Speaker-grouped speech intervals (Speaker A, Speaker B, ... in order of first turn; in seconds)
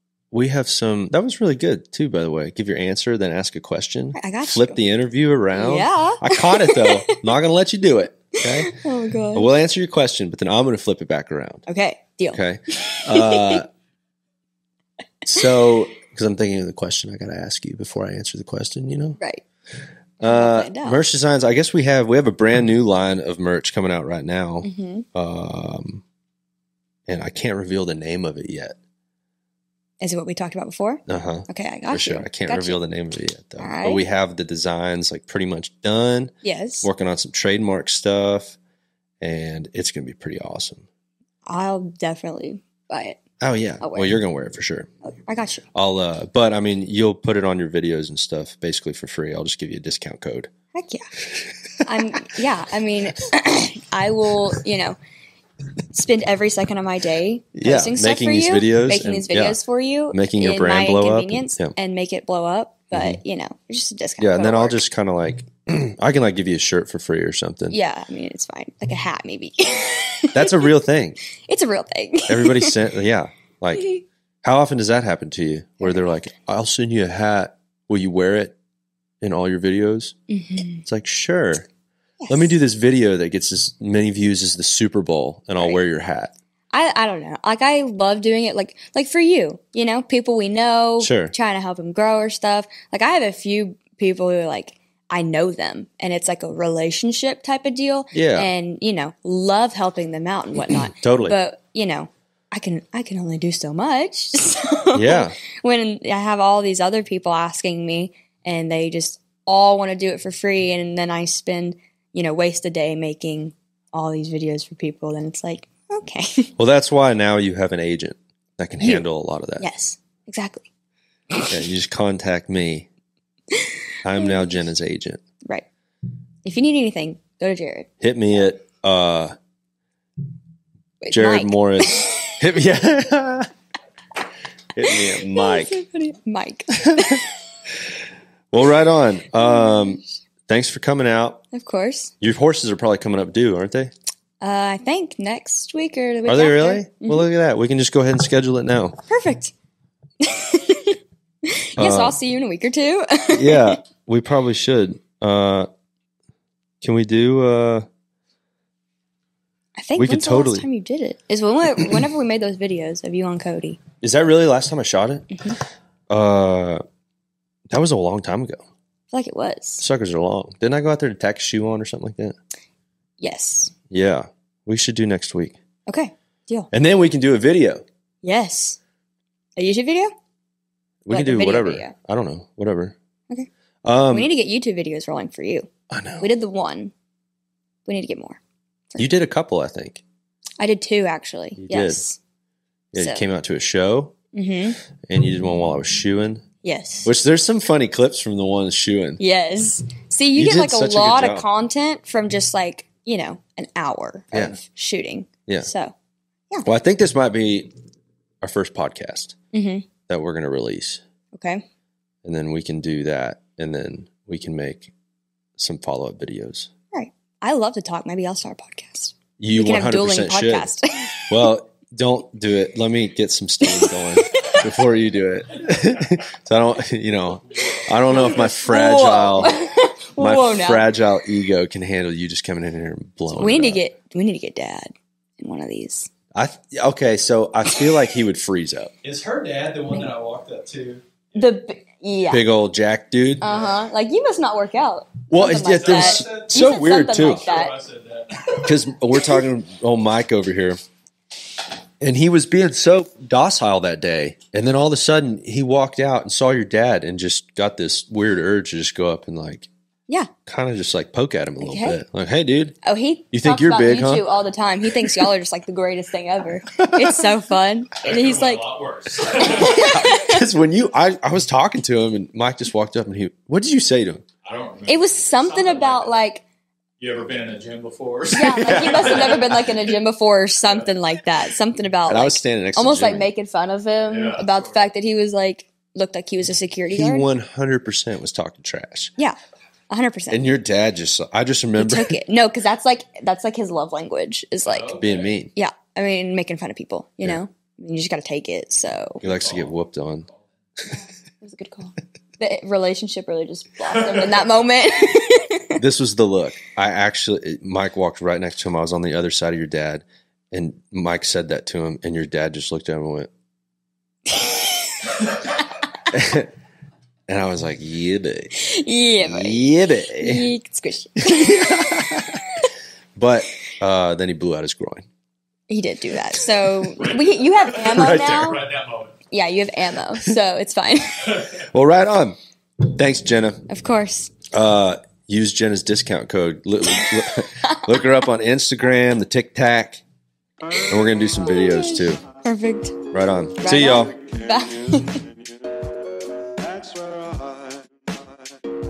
Speaker A: 0.3-8.7, 9.3-11.7, 12.3-13.7, 15.2-19.2, 20.2-26.0, 27.1-28.8, 31.1-36.3, 36.8-38.6, 39.2-40.9, 43.4-44.9, 45.7-50.5, 57.5-59.6, 60.1-61.7, 62.9-63.2, 64.2-67.8, 70.3-71.2, 72.3-73.9, 74.4-78.6, 79.2-80.2, 80.8-81.7, 82.3-86.3, 91.0-91.3, 98.1-98.5, 100.7-101.3, 104.9-105.4, 116.6-119.7, 121.5-122.9, 124.0-125.2, 128.0-129.3, 131.1-133.5, 134.8-135.8, 136.7-137.2, 138.5-141.4, 142.2-143.9, 146.3-149.0, 151.8-152.2, 153.3-155.7, 156.8-157.9, 160.0-160.7, 164.0-165.4, 166.1-166.8, 167.7-168.6, 169.8-172.3, 173.9-175.6, 176.7-177.8, 181.1-182.9, 183.8-184.3, 185.9-186.3, 189.0-190.0, 191.6-192.0, 192.9-194.2, 195.0-196.4, 197.1-199.2, 200.4-201.4, 204.3-204.6, 206.7-207.7, 208.4-209.4, 210.1-211.0, 212.2-214.9, 215.6-216.7, 219.4-220.7, 221.3-229.6, 230.2-233.8, 236.3-241.0, 242.3-243.5, 245.3-247.6, 248.6-250.8, 252.0-259.7, 260.5-262.8, 263.3-264.3, 265.0-265.3, 266.7-267.3, 269.4-274.2, 278.5-279.4, 282.1-283.3, 286.9-289.1, 290.3-292.1, 294.9-295.5, 299.2-300.3, 305.8-313.3, 316.1-316.5, 317.3-318.5, 319.2-320.5, 321.2-322.4, 323.1-325.1, 326.4-327.2, 327.8-328.6, 331.4-333.6, 334.5-340.0, 340.8-342.2, 343.1-344.1
Speaker B: 4.2-4.8, 5.5-7.2, 8.3-9.5, 11.7-13.6, 20.2-21.0, 24.6-25.1, 30.0-32.8, 33.6-34.0, 36.4-36.9, 41.5-43.2, 43.8-44.2, 45.1-45.6, 50.7-51.1, 51.8-55.0, 55.9-64.8, 67.7-70.7, 71.5-72.8, 73.8-74.0, 75.8-76.1, 80.3-80.8, 82.2-82.5, 86.7-116.5, 119.6-120.7, 124.2-124.5, 126.5-127.9, 131.0-132.4, 134.9-137.4, 139.4-140.0, 141.5-142.1, 144.4-147.2, 149.1-149.5, 150.2-153.8, 159.8-163.8, 169.1-169.8, 173.2-173.7, 175.9-176.7, 178.2-178.8, 179.6-180.1, 181.1-181.9, 184.1-185.7, 186.2-186.9, 187.9-188.4, 190.6-192.2, 193.0-193.2, 194.3-194.8, 196.6-197.1, 199.2-205.9, 209.5-209.9, 211.3-211.6, 216.9-221.2, 223.6-224.6, 228.1-230.9, 233.3-236.1, 241.3-242.4, 243.4-247.8, 261.6-262.0, 262.8-268.7, 269.3-270.5, 274.9-276.4, 278.3-287.3, 289.9-290.5, 291.8-295.0, 295.6-299.2, 300.9-305.8, 314.3-315.2, 318.6-322.7, 325.7-328.7, 329.3-331.5, 333.7-334.3, 337.6-337.9, 341.4-343.0, 343.6-345.2
Speaker C: 268.1-269.6, 274.5-276.0, 277.0-279.1, 344.1-345.5, 346.6-348.4